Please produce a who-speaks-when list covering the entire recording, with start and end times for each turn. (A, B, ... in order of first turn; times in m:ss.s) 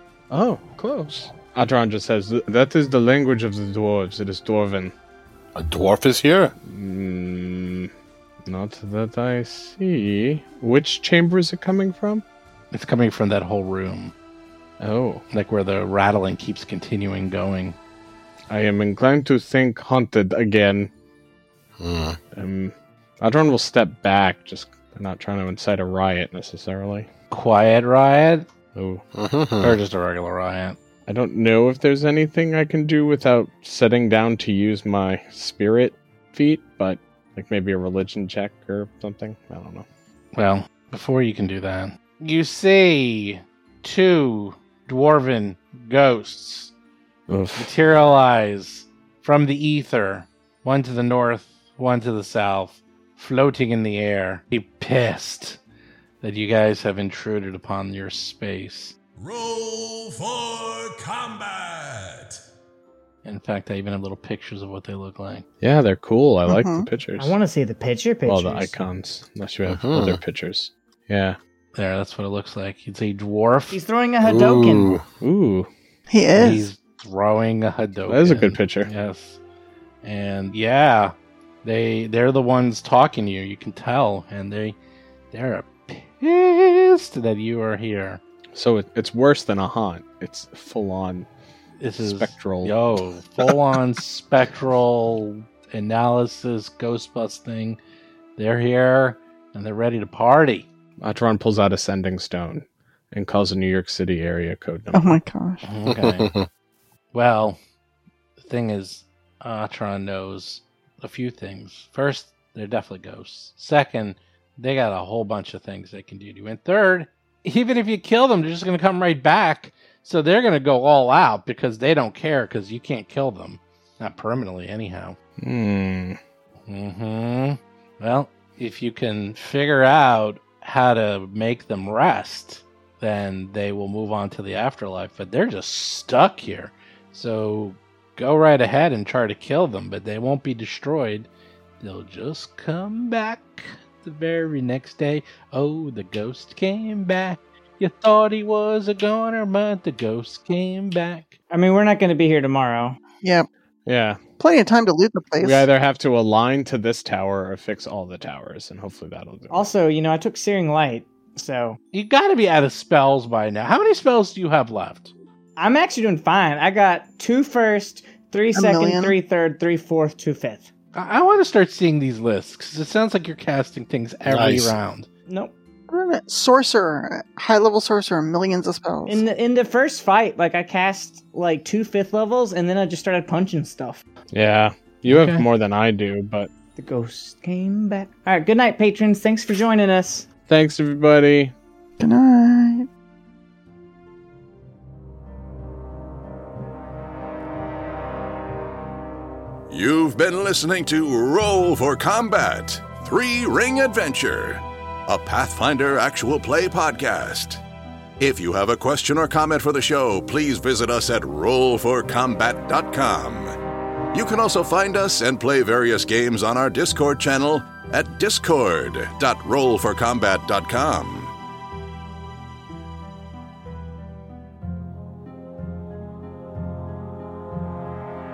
0:00.3-0:04.9 A
0:05.6-0:06.5 B
0:06.6-0:07.9 A
0:08.4-0:12.2 A
0:12.7-0:14.1 C
0:14.8-0:15.2 A
0:15.3-0:17.8 C
0:18.5-0:20.9 A
0:21.8-0:22.2 B
0:22.3-0:27.1 A
0:27.3-0:28.5 C
0:28.7-0:29.0 A
0:29.1-0:29.8 B
0:29.6-0:30.8 C
0:31.1-0:39.8 A
0:40.3-0:46.7 C
0:47.3-0:47.7 A
0:47.6-0:55.6 C
0:56.2-0:59.0 C
0:59.2-1:02.4 D
1:03.2-1:05.4 C
1:05.6-1:07.3 A
1:06.5-1:06.8 E
1:07.2-1:08.7 F
1:08.2-1:11.4 A
1:09.6-1:10.2 B
1:11.7-1:13.8 C
1:13.7-1:14.9 F
1:14.2-1:15.0 B
1:15.2-1:15.7 A
1:16.1-1:16.7 E
1:16.4-1:19.4 C
1:18.1-1:18.9 A
1:20.0-1:24.8 C
1:25.3-1:28.2 C
1:28.5-1:31.3 A
1:31.8-1:37.8 C
1:32.0-1:32.8 A
1:38.4-1:40.7 C
1:41.0-1:45.2 A
1:44.9-1:45.6 E
1:45.6-1:46.3 C
1:45.8-1:46.5 B
1:47.1-1:47.6 C
1:48.4-2:05.2 C
2:05.4-2:06.2 A
2:06.7-2:21.3 C
2:21.8-2:31.4 C
2:31.5-2:33.0 F
2:33.2-2:33.5 E
2:33.8-2:34.2 A
2:34.4-2:35.6 E
2:35.4-2:39.7 A
2:39.5-2:41.8 F
2:41.9-2:45.1 C
2:45.6-2:50.7 F
2:48.5-2:49.2 E
2:50.9-2:55.1 C
2:54.3-2:54.7 B
2:55.3-2:55.5 F
2:55.9-2:59.2 E
2:59.1-3:04.0 F
3:04.3-3:06.5 A
3:05.1-3:05.4 C
3:06.8-3:10.3 F
3:10.4-3:11.5 A
3:12.0-3:12.9 E
3:19.7-3:27.6 D
3:28.2-3:33.5 D
3:34.1-3:41.3 D